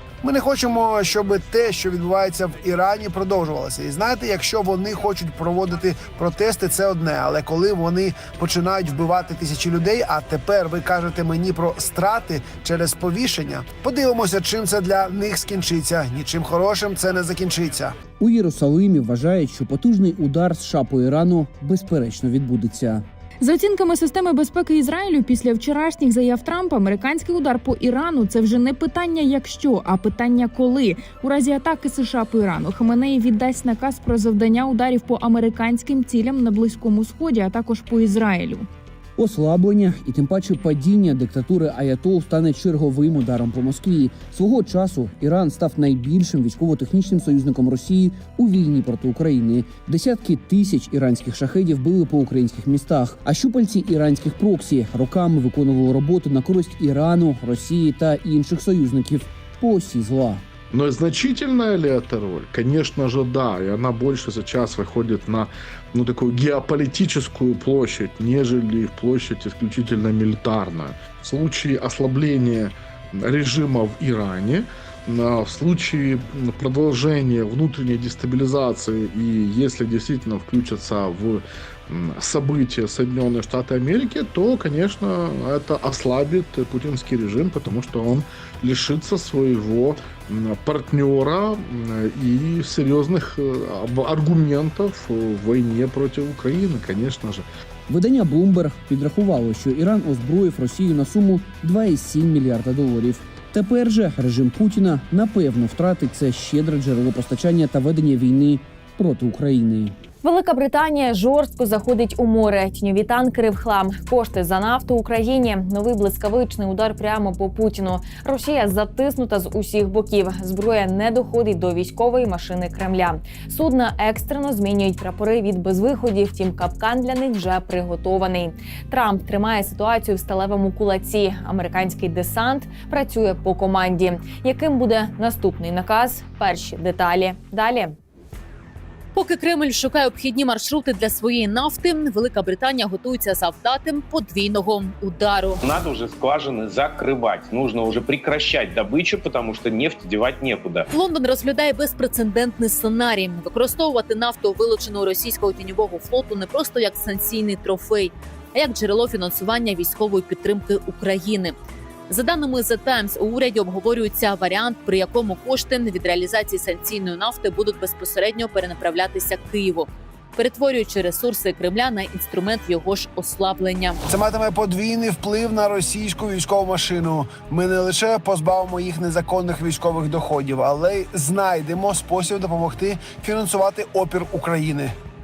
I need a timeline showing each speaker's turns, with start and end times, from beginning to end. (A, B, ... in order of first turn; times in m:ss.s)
0:00.2-0:18.0 A
0:18.2-0:23.0 B
0:23.4-0:38.7 C
0:39.2-1:00.4 B
1:00.7-1:37.4 D
1:37.9-1:49.9 B
1:50.2-2:17.9 E
2:19.1-2:25.6 F
2:25.6-2:30.9 G
2:30.9-2:41.5 F
2:42.1-2:54.0 F
2:54.1-3:04.9 A